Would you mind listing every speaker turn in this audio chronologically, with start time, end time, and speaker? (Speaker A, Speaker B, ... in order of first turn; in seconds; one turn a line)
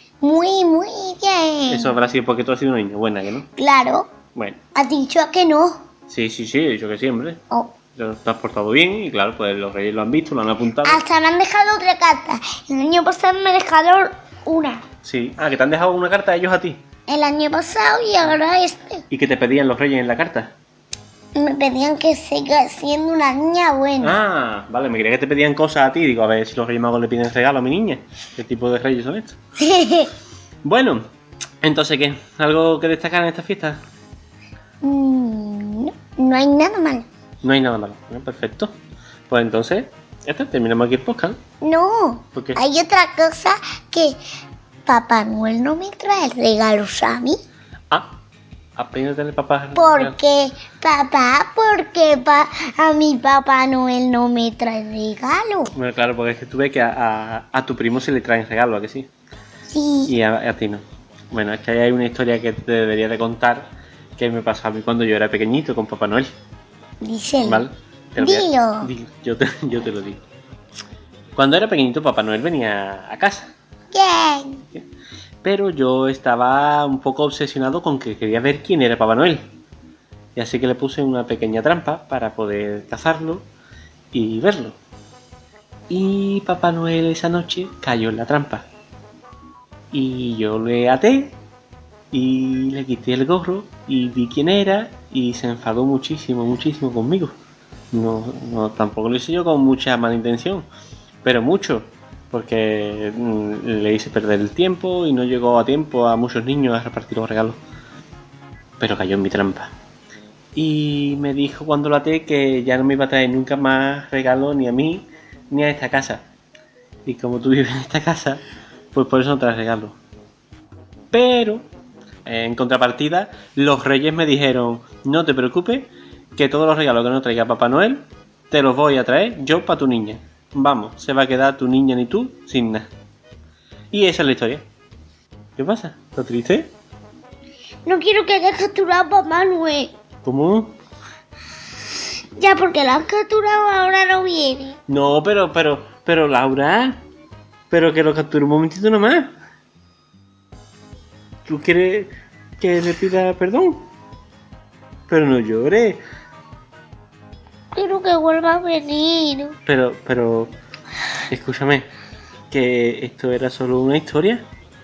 Speaker A: 0.2-1.9
Speaker B: 1.7-3.5
Speaker A: 3.5-4.1
Speaker A: 4.7-5.8
Speaker B: 6.1-7.4
Speaker B: 7.9-11.0
Speaker A: 10.8-14.8
Speaker B: 15.0-16.8
Speaker A: 17.1-19.0
Speaker B: 19.1-20.5
Speaker A: 21.3-24.1
Speaker B: 24.0-29.4
Speaker A: 29.6-30.1
Speaker B: 30.6-31.0
Speaker B: 31.6-33.8
Speaker A: 34.8-37.1
Speaker B: 37.4-38.7
Speaker B: 39.3-41.4
Speaker A: 41.6-44.2
Speaker B: 42.3-42.6
Speaker A: 44.9-47.4
Speaker B: 48.8-50.2
Speaker A: 49.7-55.7
Speaker B: 55.7-59.1
Speaker A: 59.7-60.1
Speaker B: 60.1-66.3
Speaker A: 67.0-67.7
Speaker B: 67.4-70.2
Speaker A: 68.2-68.9
Speaker B: 71.3-73.5
Speaker A: 73.9-74.6
Speaker B: 75.4-79.5
Speaker B: 80.3-83.5
Speaker B: 84.1-84.8
Speaker B: 85.9-88.7
Speaker B: 89.9-91.4
Speaker B: 92.1-97.3
Speaker B: 97.9-100.7
Speaker B: 101.2-107.6
Speaker B: 108.8-109.7
Speaker B: 110.5-116.2
Speaker B: 117.0-118.4
Speaker B: 118.9-120.0
Speaker B: 121.1-121.7
Speaker B: 122.2-132.9
Speaker B: 133.9-134.7
Speaker B: 135.6-136.7
Speaker A: 137.8-139.9
Speaker B: 140.2-140.8
Speaker A: 142.3-144.8
Speaker B: 144.9-147.0
Speaker B: 147.7-149.3
Speaker B: 151.4-153.8
Speaker B: 155.1-156.0
Speaker A: 157.7-159.6
Speaker B: 159.7-160.5
Speaker B: 161.3-161.9
Speaker B: 162.5-164.4